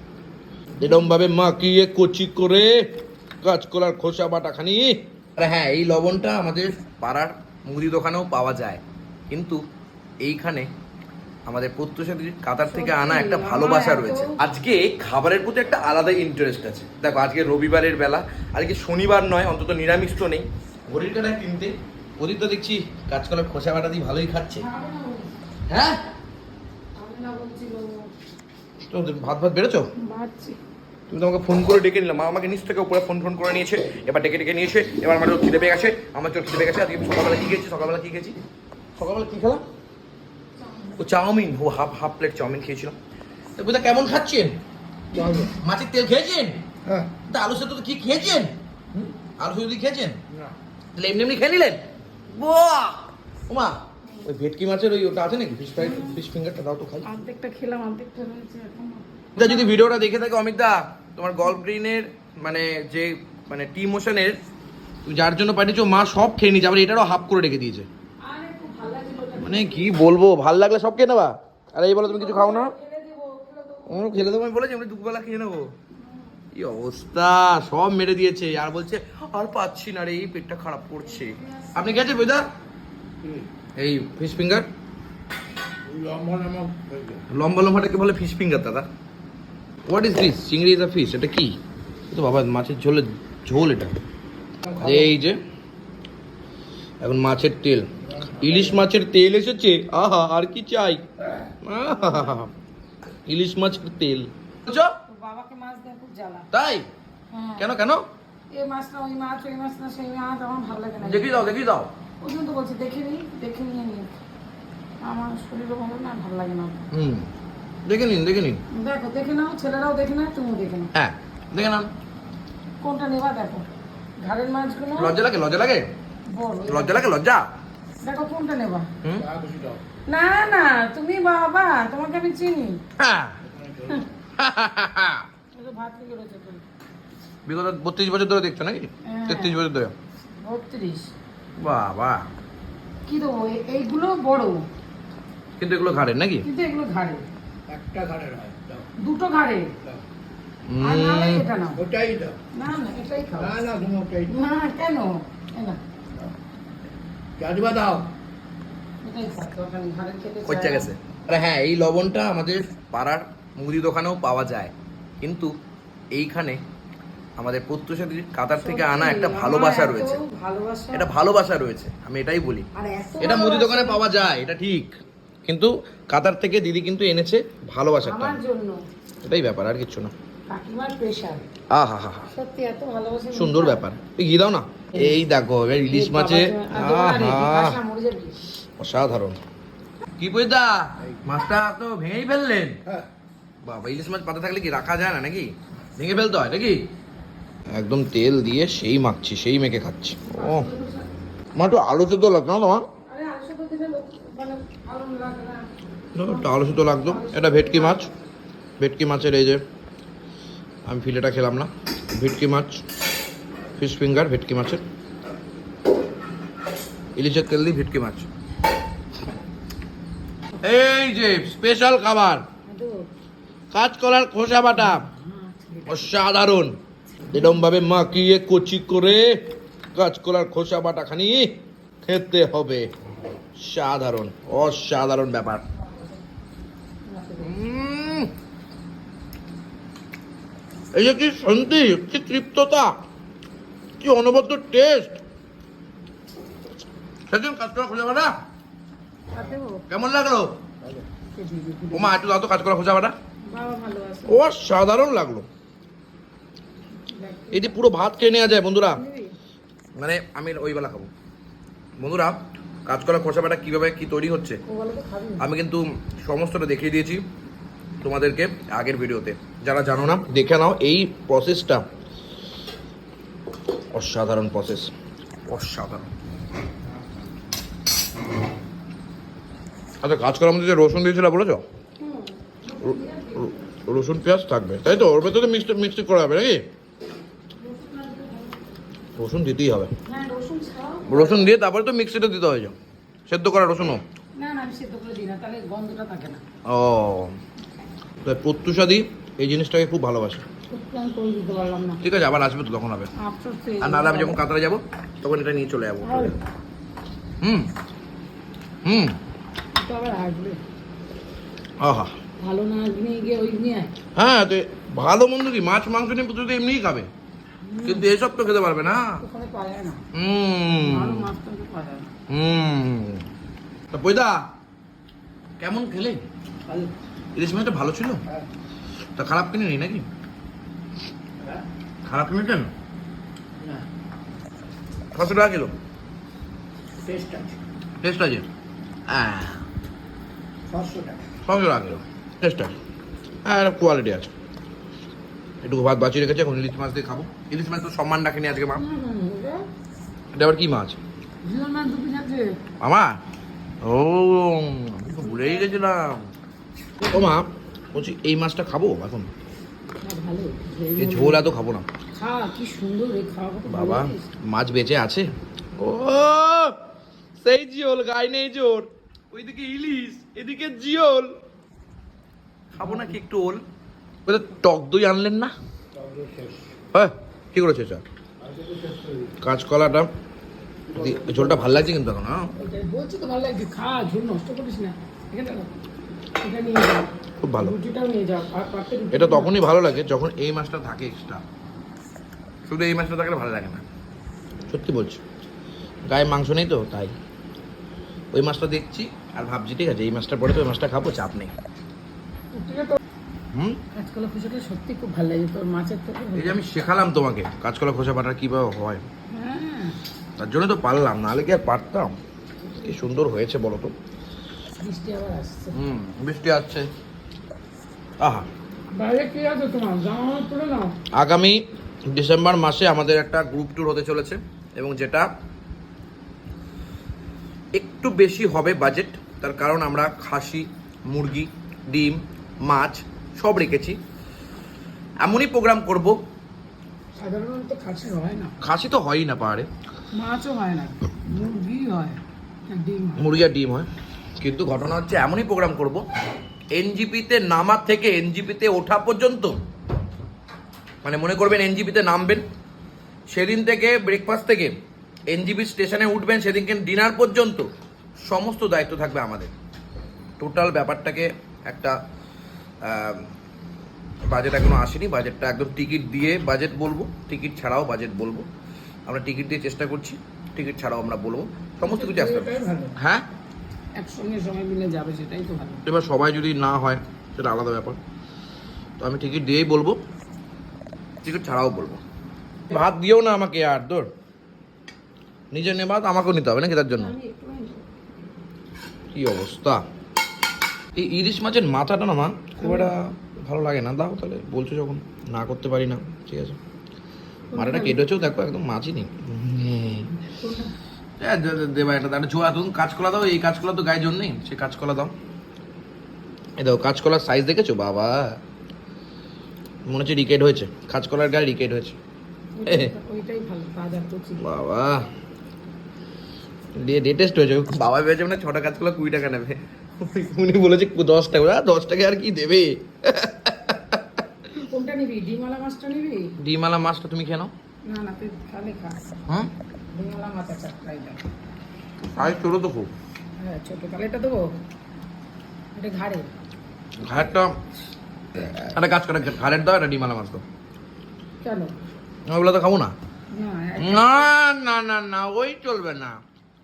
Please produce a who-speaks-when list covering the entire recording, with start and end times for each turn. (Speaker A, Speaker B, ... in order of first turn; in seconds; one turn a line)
Speaker A: 0.8-2.8
Speaker A: 3.4-9.6
Speaker A: 10.2-10.7
Speaker A: 11.5-24.7
Speaker B: 12.6-14.4
Speaker B: 24.6-25.4
Speaker A: 25.7-26.0
Speaker B: 26.9-28.1
Speaker A: 28.9-29.9
Speaker B: 30.0-30.6
Speaker A: 31.1-38.4
Speaker A: 39.0-39.6
Speaker B: 40.7-41.0
Speaker A: 41.0-43.0
Speaker A: 43.6-44.6
Speaker C: 45.1-45.5
Speaker A: 45.5-46.6
Speaker A: 47.3-48.5
Speaker A: 49.4-50.2
Speaker A: 51.0-57.1
Speaker B: 55.8-56.2
Speaker B: 57.0-59.8
Speaker A: 59.4-64.4
Speaker A: 65.1-67.9
Speaker B: 68.2-70.0
Speaker A: 69.4-72.8
Speaker B: 72.0-74.2
Speaker A: 73.9-75.7
Speaker B: 75.9-76.4
Speaker A: 76.5-82.5
Speaker B: 81.0-82.1
Speaker A: 83.8-84.7
Speaker C: 85.8-87.2
Speaker A: 87.3-88.9
Speaker A: 89.9-91.6
Speaker A: 92.1-93.9
Speaker C: 94.7-95.0
Speaker A: 94.8-95.4
Speaker A: 97.0-101.1
Speaker C: 98.2-98.6
Speaker A: 101.6-102.5
Speaker B: 102.0-102.3
Speaker A: 103.3-105.0
Speaker B: 105.0-106.5
Speaker A: 106.5-106.9
Speaker B: 107.3-107.7
Speaker A: 107.6-108.0
Speaker B: 108.5-111.5
Speaker A: 111.0-111.9
Speaker B: 112.2-114.2
Speaker B: 115.0-116.8
Speaker A: 116.9-117.3
Speaker A: 117.8-118.6
Speaker B: 118.7-120.9
Speaker A: 121.0-121.9
Speaker B: 122.8-123.7
Speaker B: 124.2-125.2
Speaker A: 125.0-125.9
Speaker B: 126.3-127.1
Speaker A: 126.7-127.5
Speaker B: 128.0-128.9
Speaker A: 129.0-129.3
Speaker C: 129.2-129.8
Speaker B: 130.1-132.8
Speaker A: 133.0-133.4
Speaker C: 133.5-134.1
Speaker A: 134.4-135.3
Speaker B: 135.5-136.7
Speaker A: 137.5-139.9
Speaker B: 139.1-139.6
Speaker B: 140.4-141.1
Speaker A: 141.6-142.3
Speaker B: 143.1-144.7
Speaker A: 145.6-146.5
Speaker B: 146.4-147.3
Speaker C: 147.7-148.9
Speaker B: 149.0-149.8
Speaker A: 150.7-151.5
Speaker B: 150.8-151.8
Speaker C: 151.8-152.4
Speaker B: 152.5-153.6
Speaker C: 153.4-154.3
Speaker B: 154.3-155.8
Speaker C: 157.4-158.1
Speaker B: 159.0-160.9
Speaker A: 160.4-165.5
Speaker A: 166.1-166.6
Speaker A: 167.4-170.2
Speaker B: 168.6-171.1
Speaker A: 170.9-172.7
Speaker B: 172.8-174.1
Speaker A: 173.2-174.9
Speaker A: 175.5-178.4
Speaker B: 178.0-178.8
Speaker A: 179.2-180.1
Speaker B: 180.5-181.5
Speaker A: 181.7-182.3
Speaker B: 182.3-183.8
Speaker A: 183.3-187.8
Speaker B: 185.9-188.4
Speaker A: 188.8-189.4
Speaker A: 190.2-192.8
Speaker A: 193.6-196.8
Speaker A: 197.7-200.7
Speaker B: 200.2-201.1
Speaker A: 201.6-202.8
Speaker B: 203.1-205.7
Speaker A: 206.2-208.1
Speaker B: 206.2-208.1
Speaker A: 208.8-209.6
Speaker A: 210.8-212.8
Speaker A: 213.8-214.8
Speaker A: 217.2-218.3
Speaker A: 220.6-222.4
Speaker B: 222.7-223.1
Speaker A: 223.7-225.1
Speaker B: 224.7-226.1
Speaker A: 225.9-226.8
Speaker A: 227.3-229.4
Speaker A: 229.9-232.9
Speaker A: 233.6-235.6
Speaker B: 237.1-237.6
Speaker A: 237.4-238.3
Speaker A: 240.9-242.9
Speaker A: 244.0-245.2
Speaker A: 247.3-248.3
Speaker B: 249.3-249.8
Speaker A: 249.9-250.5
Speaker B: 251.3-252.2
Speaker A: 251.9-253.2
Speaker B: 253.5-254.4
Speaker A: 254.3-255.5
Speaker B: 257.1-257.8
Speaker A: 257.5-259.0
Speaker B: 258.9-259.4
Speaker A: 260.0-261.1
Speaker A: 262.0-264.6
Speaker B: 264.6-265.5
Speaker A: 265.4-267.2
Speaker A: 268.0-271.8
Speaker A: 273.9-274.9
Speaker A: 275.5-276.1
Speaker A: 280.0-281.6
Speaker B: 282.0-283.6
Speaker A: 282.8-286.6
Speaker B: 287.6-288.6
Speaker A: 289.2-289.9
Speaker B: 290.1-291.5
Speaker A: 291.1-292.8
Speaker A: 293.3-294.0
Speaker B: 294.4-296.4
Speaker A: 296.7-297.4
Speaker A: 298.2-300.4
Speaker B: 300.7-302.0
Speaker A: 302.0-303.1
Speaker B: 303.2-304.4
Speaker A: 303.8-306.4
Speaker B: 306.0-306.4
Speaker A: 307.4-307.7
Speaker A: 308.9-309.2
Speaker B: 309.8-310.6
Speaker A: 311.8-312.1
Speaker B: 312.4-313.9
Speaker A: 314.2-317.1
Speaker B: 317.6-318.1
Speaker A: 317.9-319.2
Speaker B: 319.0-320.0
Speaker A: 320.1-321.3
Speaker B: 320.8-322.1
Speaker A: 322.3-323.2
Speaker A: 323.9-324.4
Speaker A: 325.6-326.2
Speaker A: 327.4-328.2
Speaker A: 329.2-330.1
Speaker A: 332.1-332.7
Speaker A: 335.1-335.7
Speaker C: 337.1-337.6
Speaker A: 338.0-338.5
Speaker A: 339.1-339.6
Speaker C: 340.7-341.2
Speaker A: 341.4-342.8
Speaker A: 343.4-344.3
Speaker A: 345.6-348.8
Speaker B: 348.8-349.7
Speaker A: 350.3-351.0
Speaker B: 351.4-352.6
Speaker A: 352.8-353.2
Speaker A: 353.8-356.3
Speaker B: 355.2-355.7
Speaker A: 357.0-359.3
Speaker B: 360.0-361.4
Speaker A: 361.0-361.9
Speaker B: 362.1-364.3
Speaker A: 363.7-366.8
Speaker A: 367.4-371.3
Speaker A: 372.8-373.6
Speaker A: 374.3-375.5
Speaker C: 376.0-376.7
Speaker A: 376.9-378.0
Speaker C: 378.4-379.3
Speaker A: 379.4-380.1
Speaker C: 380.9-381.6
Speaker A: 380.9-382.5
Speaker B: 382.6-385.7
Speaker B: 386.4-389.6
Speaker A: 387.4-387.8
Speaker A: 389.1-391.4
Speaker A: 392.6-393.8
Speaker A: 394.7-395.2
Speaker A: 396.1-397.1
Speaker A: 398.3-401.5
Speaker B: 402.5-403.0
Speaker A: 403.5-403.8
Speaker B: 403.9-406.6
Speaker A: 406.3-409.1
Speaker B: 409.3-410.0
Speaker A: 410.4-412.1
Speaker A: 412.8-413.9
Speaker B: 414.8-415.8
Speaker A: 415.7-416.9
Speaker A: 418.2-418.5
Speaker B: 418.9-421.0
Speaker A: 421.2-421.6
Speaker A: 422.1-425.3
Speaker A: 427.8-434.0
Speaker A: 435.2-436.2
Speaker B: 437.2-438.6
Speaker A: 438.6-439.7
Speaker B: 440.1-442.2
Speaker B: 442.7-443.3
Speaker A: 443.2-446.1
Speaker A: 446.7-449.6
Speaker A: 451.0-452.4
Speaker A: 453.3-454.7
Speaker A: 455.3-457.7
Speaker A: 458.2-459.5
Speaker A: 460.4-462.0
Speaker A: 462.8-463.3
Speaker A: 464.3-468.5
Speaker A: 469.1-473.2
Speaker B: 471.8-472.9
Speaker B: 474.0-475.8
Speaker A: 475.9-478.0
Speaker A: 479.0-480.0
Speaker A: 481.2-482.0
Speaker A: 482.7-484.1
Speaker A: 485.5-487.2
Speaker B: 487.0-487.9
Speaker A: 489.1-489.8
Speaker A: 490.9-496.6
Speaker B: 492.6-492.9
Speaker B: 497.5-498.1
Speaker A: 497.6-500.2
Speaker B: 500.2-500.7
Speaker A: 501.2-505.1
Speaker A: 506.6-508.4
Speaker A: 509.9-512.0
Speaker B: 512.6-514.5
Speaker A: 512.7-512.9
Speaker A: 514.4-515.1
Speaker A: 516.8-524.2
Speaker B: 524.7-526.4
Speaker A: 526.4-527.5
Speaker B: 527.9-529.0
Speaker B: 529.9-531.2
Speaker A: 532.1-532.9
Speaker B: 533.4-534.6
Speaker B: 535.8-536.3
Speaker A: 537.0-537.6
Speaker A: 538.5-540.4
Speaker B: 541.4-541.7
Speaker A: 542.3-543.0
Speaker B: 543.3-544.3
Speaker A: 543.8-546.2